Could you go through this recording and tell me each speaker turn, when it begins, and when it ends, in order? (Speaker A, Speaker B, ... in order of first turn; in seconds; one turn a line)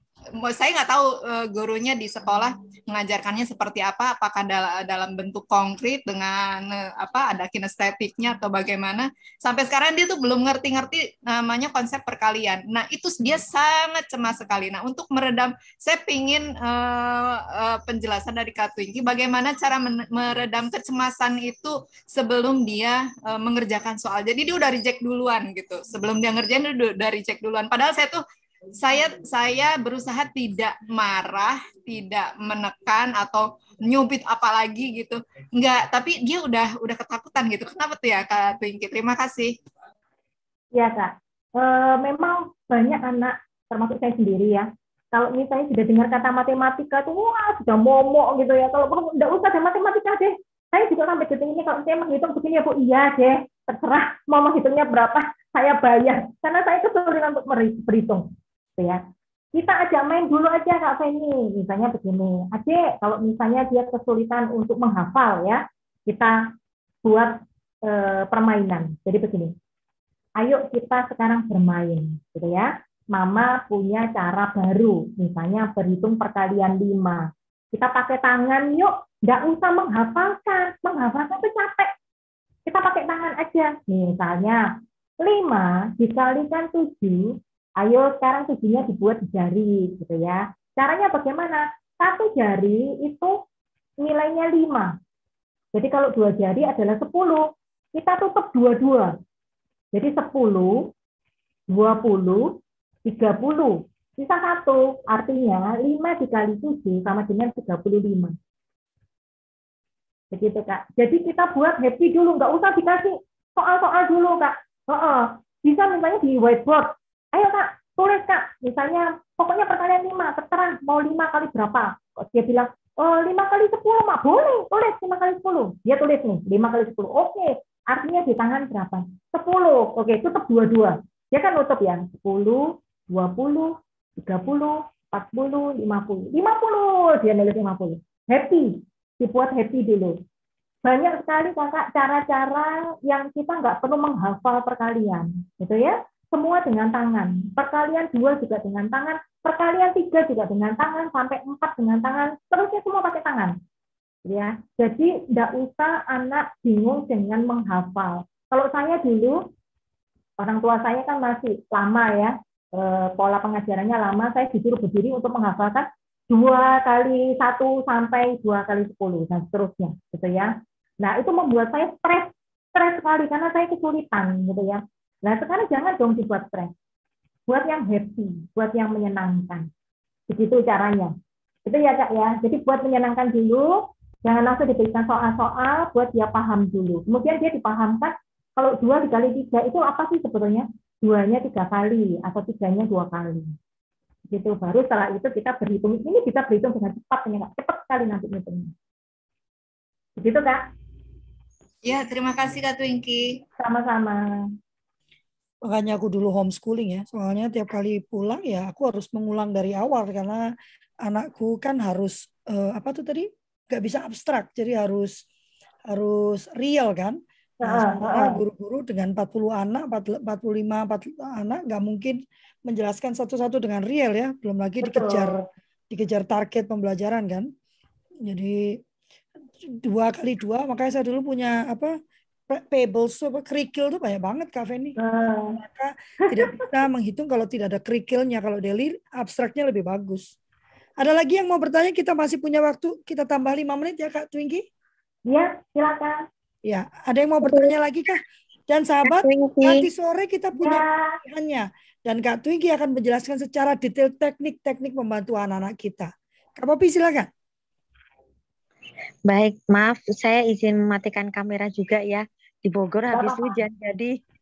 Speaker A: 0.4-28.2
Speaker A: 28.8-39.6
Speaker B: 40.8-58.3
Speaker B: 59.5-66.4
Speaker B: 67.0-69.5
Speaker B: 70.4-81.9
Speaker B: 82.7-84.7
Speaker B: 85.2-93.3
Speaker B: 94.0-95.0
Speaker B: 95.7-99.2
Speaker B: 99.9-100.9
Speaker B: 101.7-108.4
Speaker B: 110.3-140.2
Speaker B: 140.8-153.6
Speaker B: 154.2-159.4
Speaker B: 160.4-176.7
Speaker B: 177.5-179.7
Speaker B: 180.3-181.1
Speaker B: 181.7-193.5
Speaker B: 194.3-198.7
Speaker B: 200.2-200.6
Speaker A: 201.8-203.4
Speaker B: 203.6-204.3
Speaker C: 205.7-210.5
Speaker C: 211.0-215.2
Speaker C: 215.9-225.4
Speaker B: 217.6-218.4
Speaker B: 224.8-225.4
Speaker C: 225.9-227.5
Speaker C: 228.3-228.8
Speaker C: 229.6-232.0
Speaker C: 232.5-235.0
Speaker B: 235.0-235.6
Speaker C: 235.6-240.3
Speaker B: 236.2-236.7
Speaker C: 241.0-244.7
Speaker B: 245.3-246.2
Speaker C: 246.7-257.3
Speaker D: 249.1-249.9
Speaker B: 250.6-251.2
Speaker D: 259.3-264.2
Speaker B: 263.1-263.6